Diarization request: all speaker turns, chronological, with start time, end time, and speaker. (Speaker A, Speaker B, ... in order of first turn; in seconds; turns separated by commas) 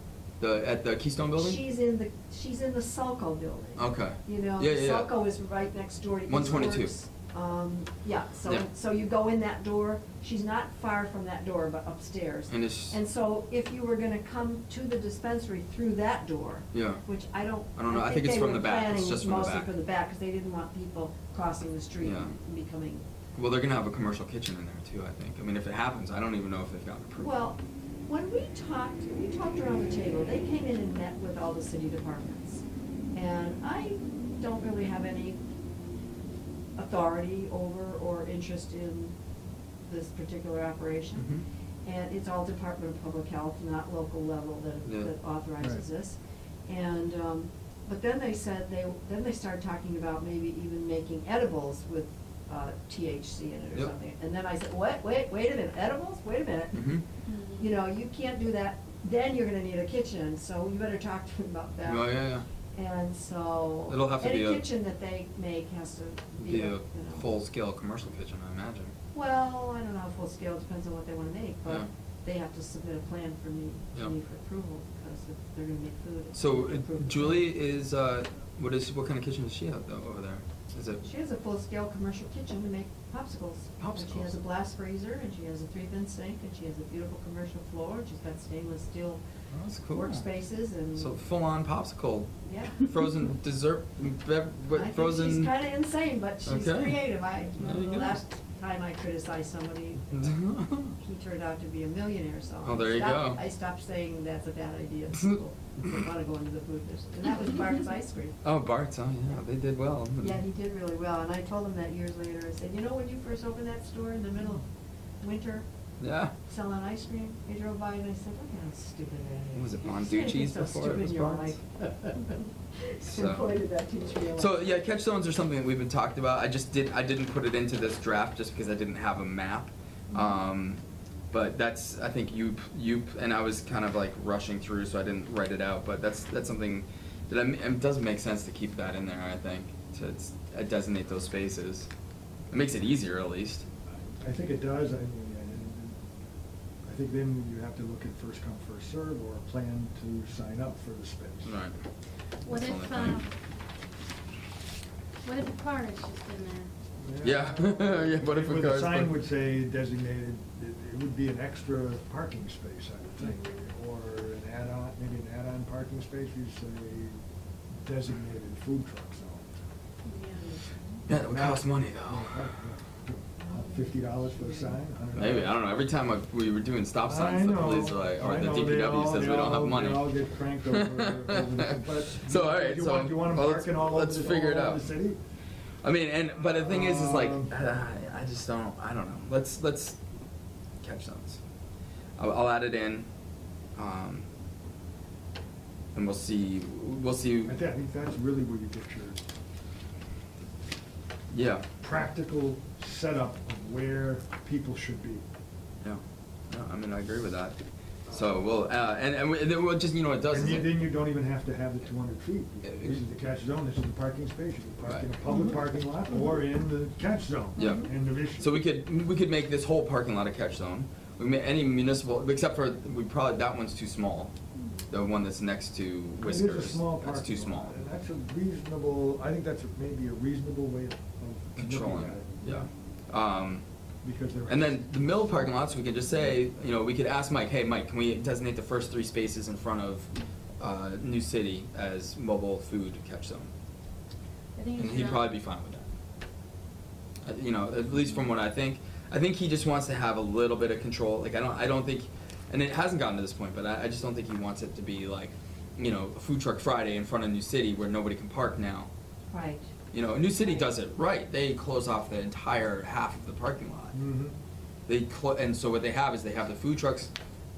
Speaker A: 0.4-1.6, Speaker B: 1.4-23.1, Speaker A: 3.8-5.1, Speaker A: 6.3-6.9, Speaker A: 12.5-12.9, Speaker A: 16.7-17.0, Speaker A: 17.8-19.7, Speaker A: 22.0-22.3, Speaker A: 23.4-27.3, Speaker B: 27.2-35.4, Speaker B: 36.8-39.1, Speaker B: 39.8-41.3, Speaker A: 41.2-41.4, Speaker B: 41.8-56.8, Speaker A: 44.9-45.1, Speaker A: 56.7-57.0, Speaker C: 57.2-57.7, Speaker B: 57.6-62.2, Speaker A: 61.8-62.5, Speaker B: 62.7-67.3, Speaker A: 63.9-64.7, Speaker A: 66.4-68.9, Speaker B: 69.1-77.4, Speaker A: 76.3-81.0, Speaker B: 81.0-89.2, Speaker A: 83.8-84.4, Speaker A: 89.5-90.3, Speaker B: 89.9-91.2, Speaker A: 90.9-95.5, Speaker B: 92.4-92.8, Speaker B: 94.7-100.4, Speaker A: 96.5-98.2, Speaker A: 100.1-100.9, Speaker B: 101.0-108.4, Speaker A: 102.6-103.4, Speaker A: 108.4-110.4, Speaker B: 110.2-114.6, Speaker B: 115.2-115.7, Speaker A: 116.0-116.3, Speaker B: 116.4-121.6, Speaker A: 119.5-121.5, Speaker B: 122.1-124.5, Speaker A: 123.0-123.6, Speaker A: 124.3-141.9, Speaker A: 142.5-143.6, Speaker D: 144.2-146.0, Speaker D: 146.8-151.6, Speaker A: 151.4-151.8, Speaker A: 152.4-153.2, Speaker C: 152.4-153.3, Speaker C: 155.2-156.7, Speaker D: 157.0-167.2, Speaker A: 157.2-159.2, Speaker C: 163.2-163.5, Speaker D: 167.8-169.6, Speaker C: 170.1-171.0, Speaker A: 171.1-172.4, Speaker D: 171.2-175.5, Speaker C: 173.5-173.9, Speaker A: 175.2-184.9, Speaker D: 177.0-185.2, Speaker A: 185.8-190.0, Speaker D: 186.5-187.5, Speaker A: 190.8-191.4, Speaker A: 192.2-193.1, Speaker A: 193.8-194.3, Speaker A: 195.9-197.5, Speaker D: 197.4-199.2, Speaker A: 201.3-201.7, Speaker D: 201.8-205.2, Speaker A: 205.8-210.7, Speaker D: 210.3-218.5, Speaker A: 212.6-213.0, Speaker A: 214.8-215.1, Speaker A: 217.6-224.3, Speaker A: 224.9-227.8, Speaker D: 226.2-232.7, Speaker A: 231.6-233.6, Speaker D: 234.0-234.8, Speaker A: 234.5-243.5, Speaker C: 244.6-245.3, Speaker A: 244.8-245.9, Speaker A: 247.2-258.9, Speaker B: 259.3-259.7, Speaker A: 259.9-263.9, Speaker D: 263.9-264.4, Speaker A: 264.9-267.1